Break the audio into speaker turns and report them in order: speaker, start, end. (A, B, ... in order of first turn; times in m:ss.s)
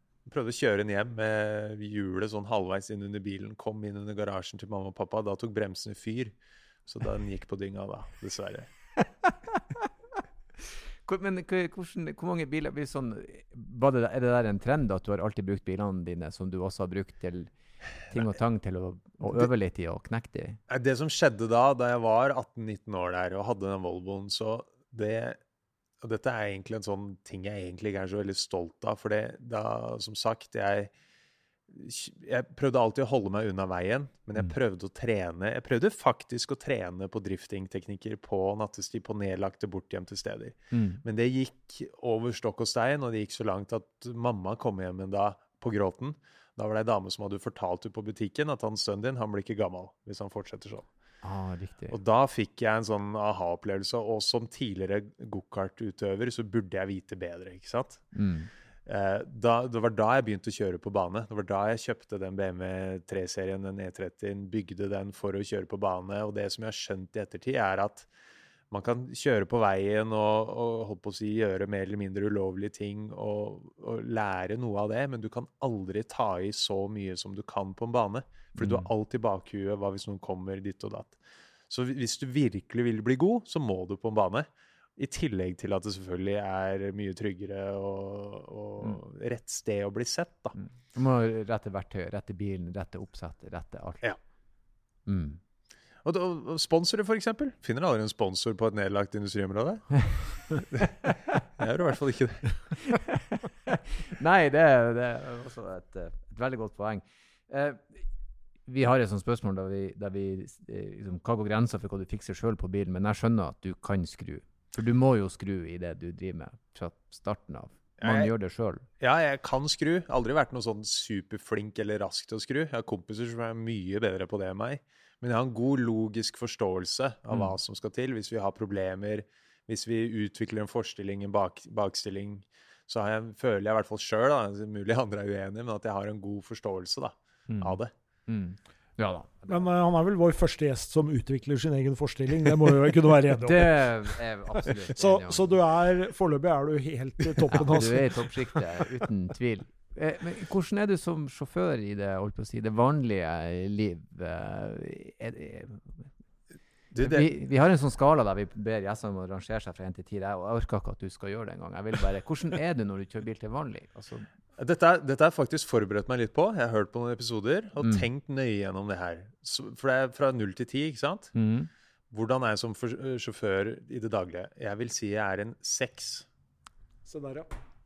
0:00.3-0:06.3 A
0:06.8-0:08.7 A
0:09.0-0:09.9 B
0:11.0-0:17.5 B
0:18.1-0:20.6 B
0:20.7-0:25.4 A
0:26.0-0:30.9 A
0:31.7-0:50.9 A
0:40.7-0:41.0 B
0:51.2-0:52.0 B
0:51.9-0:58.0 A
0:58.1-0:58.5 B
0:58.8-1:08.1 A
1:08.7-1:30.5 A
1:18.6-1:18.9 B
1:30.6-1:34.1 B
1:35.0-1:35.4 B
1:36.0-1:40.9 A
1:41.0-1:41.4 B
1:41.6-1:42.5 A
1:42.8-1:48.0 B
1:48.7-1:58.8 B
1:58.0-1:58.3 A
1:59.0-2:17.9 A
2:17.5-2:19.6 B
2:19.5-2:28.6 C
2:23.4-2:25.6 B
2:27.4-2:27.8 A
2:27.5-2:36.1 B
2:36.9-2:37.3 A
2:37.0-2:44.3 B
2:44.6-2:51.3 A
2:51.3-2:51.7 B
2:52.1-2:56.3 A
2:57.0-2:57.5 C